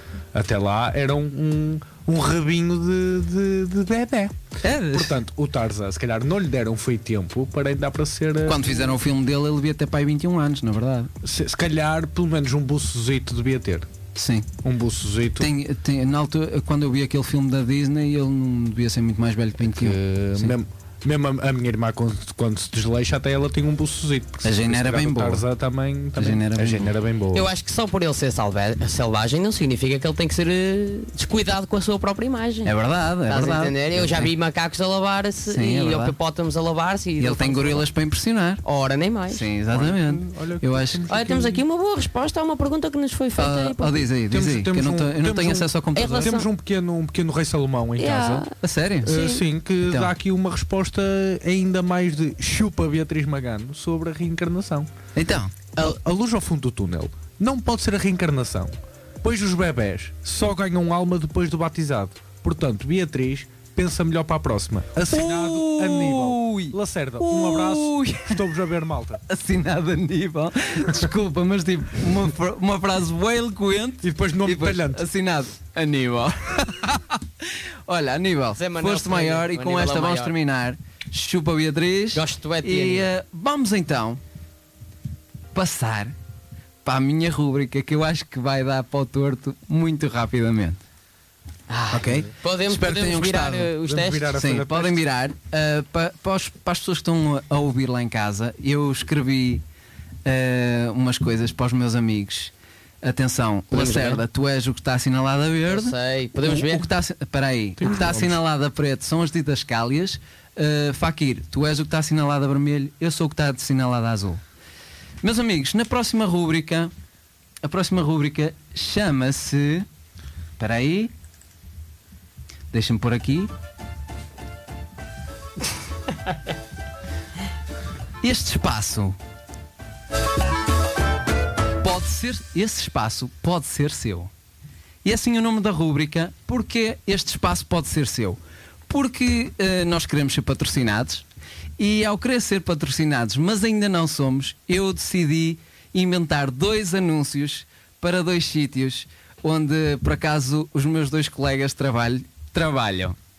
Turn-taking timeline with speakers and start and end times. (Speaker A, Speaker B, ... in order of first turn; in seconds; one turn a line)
Speaker A: 0.3-9.0
Speaker B: 4.6-5.2
Speaker B: 8.4-11.1
Speaker A: 11.2-13.9
Speaker B: 14.1-14.5
Speaker A: 14.6-15.5
Speaker B: 15.4-20.5
Speaker A: 19.6-27.5
Speaker B: 24.4-25.4
Speaker B: 26.1-26.9
Speaker C: 27.3-32.7
Speaker B: 32.6-34.3
Speaker C: 33.3-37.9
Speaker B: 35.5-36.1
Speaker B: 37.2-38.6
Speaker C: 38.6-39.5
Speaker B: 39.3-41.0
Speaker A: 39.7-41.6
Speaker C: 41.1-44.1
Speaker B: 43.4-46.4
Speaker A: 44.3-48.5
Speaker C: 45.9-46.5
Speaker C: 48.0-49.4
Speaker B: 48.6-49.1
Speaker A: 49.0-54.9
Speaker B: 49.8-50.1
Speaker B: 55.1-55.5
Speaker A: 55.8-69.2
Speaker B: 65.1-68.4
Speaker B: 69.3-84.2
Speaker A: 74.0-75.0
Speaker C: 78.6-80.3
Speaker C: 82.1-83.1
Speaker B: 85.5-86.1
Speaker B: 86.8-90.8
Speaker C: 91.7-94.3
Speaker B: 91.9-93.7
Speaker A: 93.8-95.0
Speaker B: 94.3-99.6
Speaker B: 100.2-114.4
Speaker C: 103.7-104.2
Speaker C: 105.7-106.9
Speaker A: 107.8-108.4
Speaker B: 115.2-116.9
Speaker B: 117.6-119.9
Speaker B: 120.6-121.1
Speaker B: 122.7-123.5
Speaker B: 128.2-129.2
Speaker B: 131.8-134.3
Speaker B: 135.0-141.2
Speaker B: 141.8-153.2